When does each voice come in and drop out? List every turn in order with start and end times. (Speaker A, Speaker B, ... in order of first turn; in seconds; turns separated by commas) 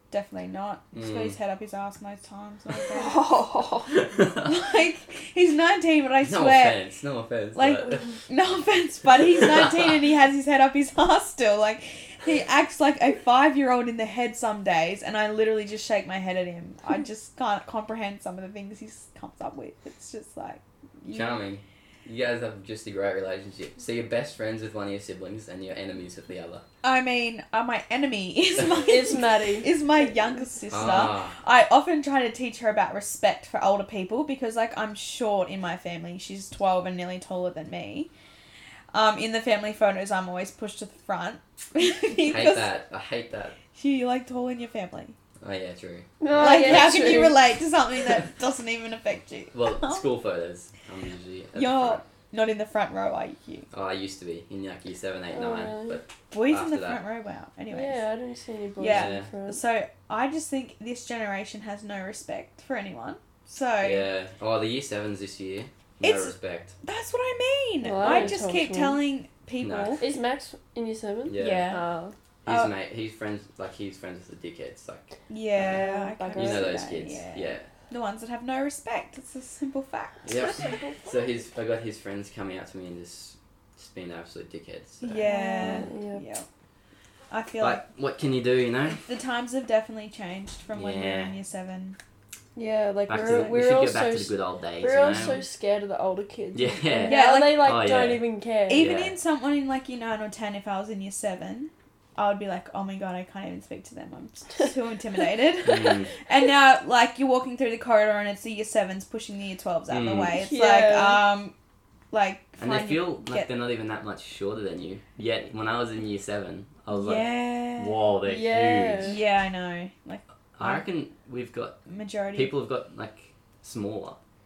Speaker A: 0.1-3.4, Speaker B: 0.9-1.4, Speaker C: 2.9-4.0, Speaker B: 3.9-4.5, Speaker A: 4.4-6.8, Speaker B: 6.2-8.2, Speaker A: 7.5-21.4, Speaker B: 9.5-9.9, Speaker B: 21.1-26.6, Speaker A: 26.8-38.1, Speaker C: 28.6-29.8, Speaker B: 30.7-31.4, Speaker A: 38.9-42.7, Speaker B: 42.2-43.6, Speaker A: 43.7-45.1, Speaker B: 45.4-47.1, Speaker C: 46.2-47.5, Speaker A: 46.3-50.0, Speaker B: 49.5-52.0, Speaker A: 51.5-53.7, Speaker B: 53.7-57.0, Speaker C: 55.3-56.0, Speaker A: 56.3-58.0, Speaker C: 57.7-59.6, Speaker A: 58.8-64.0, Speaker B: 58.8-59.3, Speaker B: 63.8-66.7, Speaker A: 66.0-70.0, Speaker C: 67.8-69.0, Speaker B: 68.0-68.4, Speaker B: 69.6-70.0, Speaker C: 70.0-72.1, Speaker B: 71.2-71.7, Speaker A: 71.3-71.8, Speaker B: 72.4-77.7, Speaker A: 72.5-72.7, Speaker A: 75.3-80.9, Speaker C: 75.6-76.9, Speaker B: 80.2-85.7, Speaker C: 80.4-81.0, Speaker A: 85.0-86.5, Speaker C: 85.2-86.2, Speaker A: 87.3-87.8, Speaker B: 87.6-89.0, Speaker A: 88.9-92.0, Speaker B: 90.7-91.3, Speaker C: 92.5-98.9, Speaker B: 93.1-95.4, Speaker A: 93.2-93.5, Speaker B: 96.5-99.1, Speaker A: 97.0-97.8, Speaker A: 98.7-111.5, Speaker B: 105.6-106.1, Speaker B: 109.9-110.4, Speaker C: 110.3-111.2, Speaker A: 112.1-113.5, Speaker B: 112.6-119.2, Speaker A: 116.9-118.0, Speaker C: 118.2-119.2, Speaker A: 119.0-120.9, Speaker B: 120.5-121.7, Speaker A: 121.8-122.5, Speaker B: 122.3-124.2